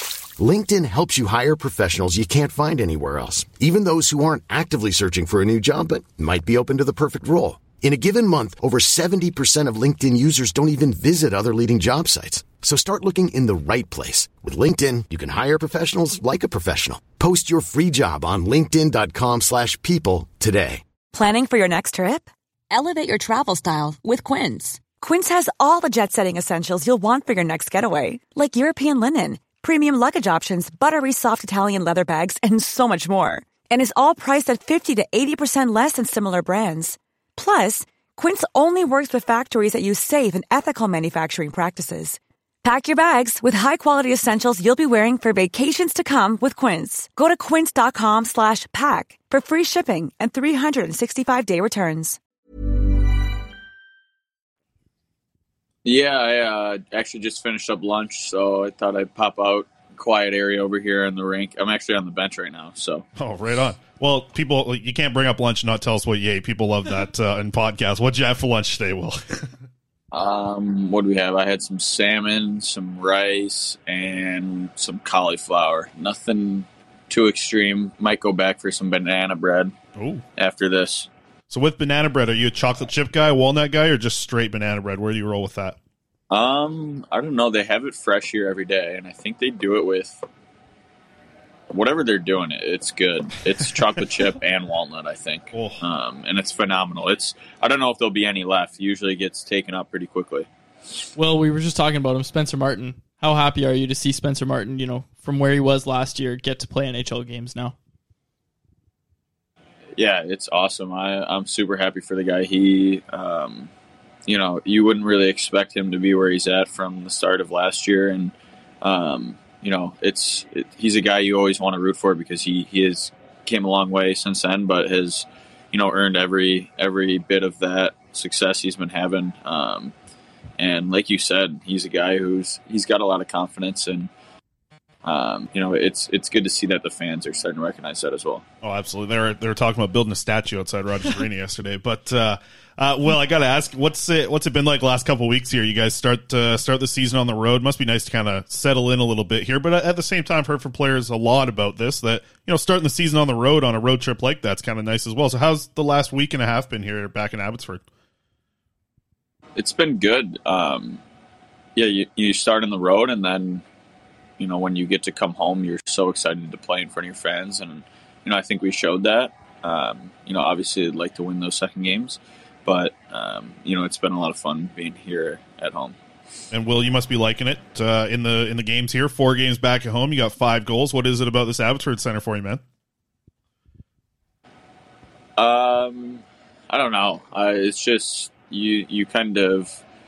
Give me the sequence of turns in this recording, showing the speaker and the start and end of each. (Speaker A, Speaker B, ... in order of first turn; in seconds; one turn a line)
Speaker A: 0.4-20.8
Speaker B: 21.1-52.2
Speaker C: 55.9-63.0
Speaker D: 63.2-69.5
Speaker C: 70.1-79.8
Speaker D: 80.0-80.2
Speaker C: 80.4-81.1
Speaker D: 81.5-85.8
Speaker C: 86.3-90.2
Speaker C: 91.7-100.5
Speaker D: 95.5-95.8
Speaker E: 101.2-107.8
Speaker C: 110.0-113.7
Speaker C: 114.3-129.9
Speaker C: 130.6-134.1
Speaker C: 135.0-138.4
Speaker D: 138.6-157.8
Speaker C: 159.6-161.0
Speaker C: 161.8-163.6
Speaker C: 164.4-176.0
Speaker D: 176.5-182.6
Speaker C: 185.4-189.8